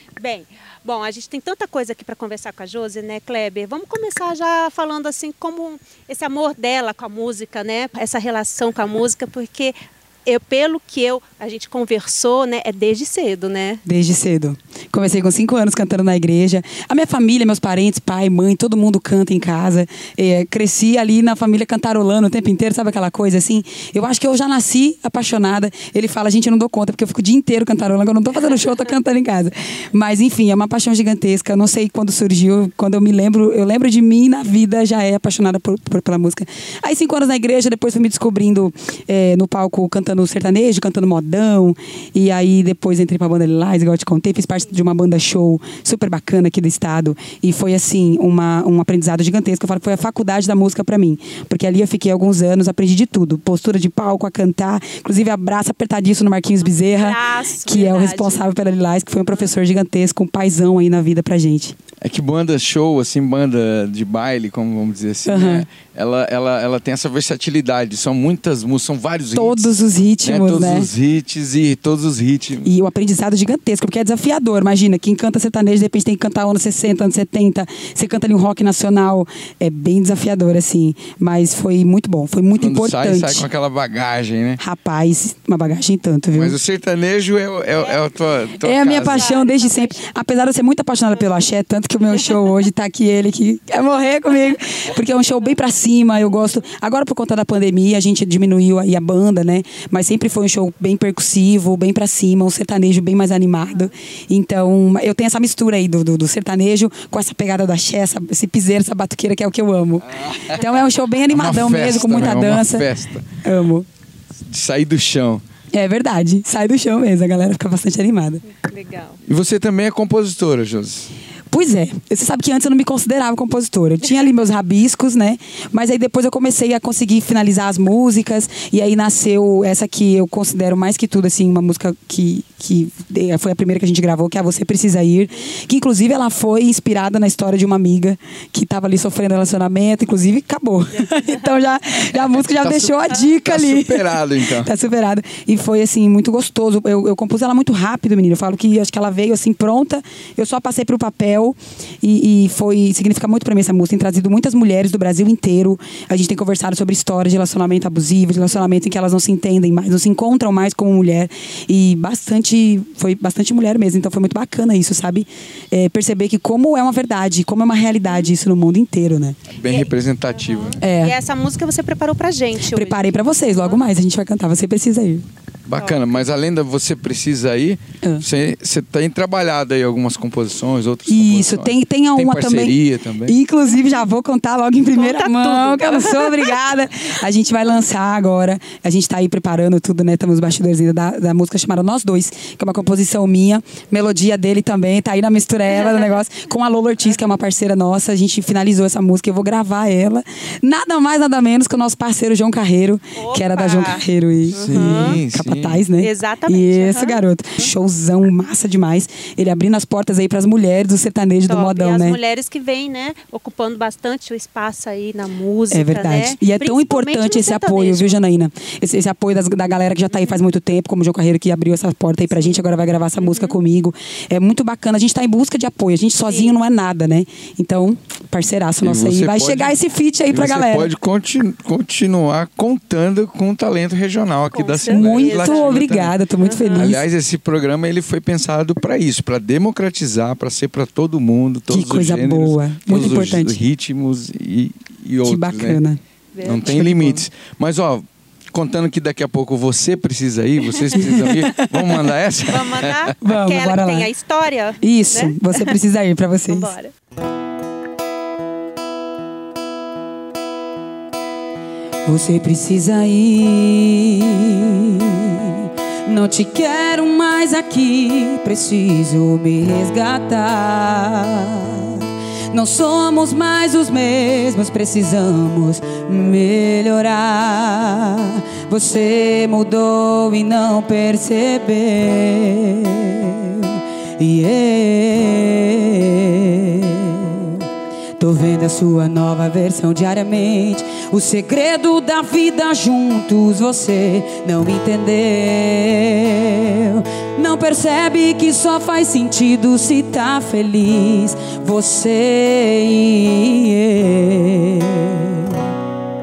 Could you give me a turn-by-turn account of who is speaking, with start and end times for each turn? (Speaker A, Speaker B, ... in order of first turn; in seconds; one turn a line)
Speaker A: 0.2-13.8
Speaker B: 13.8-61.8
Speaker A: 56.6-58.8
Speaker C: 62.0-72.7
Speaker B: 65.3-65.7
Speaker B: 69.3-70.9
Speaker B: 72.7-83.5
Speaker C: 82.5-84.6
Speaker B: 84.6-86.6
Speaker C: 86.3-89.3
Speaker B: 88.6-112.9
Speaker A: 89.0-90.1
Speaker C: 110.2-110.6
Speaker C: 111.3-113.4
Speaker B: 113.4-113.9
Speaker C: 114.5-115.4
Speaker B: 115.7-118.4
Speaker A: 118.5-119.2
Speaker C: 119.2-121.1
Speaker B: 121.5-169.4
Speaker A: 141.0-141.4
Speaker C: 142.5-144.7
Speaker C: 169.5-170.8
Speaker A: 169.6-173.8
Speaker B: 170.8-171.2
Speaker B: 172.7-175.2
Speaker C: 175.7-183.4
Speaker B: 181.1-212.2
Speaker A: 184.9-186.6
Speaker A: 203.2-204.0
Speaker C: 204.5-205.8
Speaker A: 204.6-205.2
Speaker A: 206.0-207.7
Speaker A: 211.5-218.2
Speaker B: 215.7-230.9
Speaker A: 222.3-222.6
Speaker A: 223.2-223.6
Speaker A: 226.3-226.5
Speaker C: 228.8-229.8
Speaker C: 230.3-236.1
Speaker A: 234.5-235.8
Speaker B: 234.9-237.0
Speaker A: 236.4-236.9
Speaker C: 236.8-245.8
Speaker B: 241.7-243.6
Speaker B: 245.2-246.0
Speaker A: 246.3-246.7
Speaker C: 246.4-253.2
Speaker B: 246.6-247.2
Speaker B: 250.9-252.1
Speaker A: 252.5-255.8
Speaker B: 253.2-254.1
Speaker B: 254.8-256.7
Speaker A: 256.5-256.9
Speaker B: 262.1-287.6
Speaker B: 288.2-305.6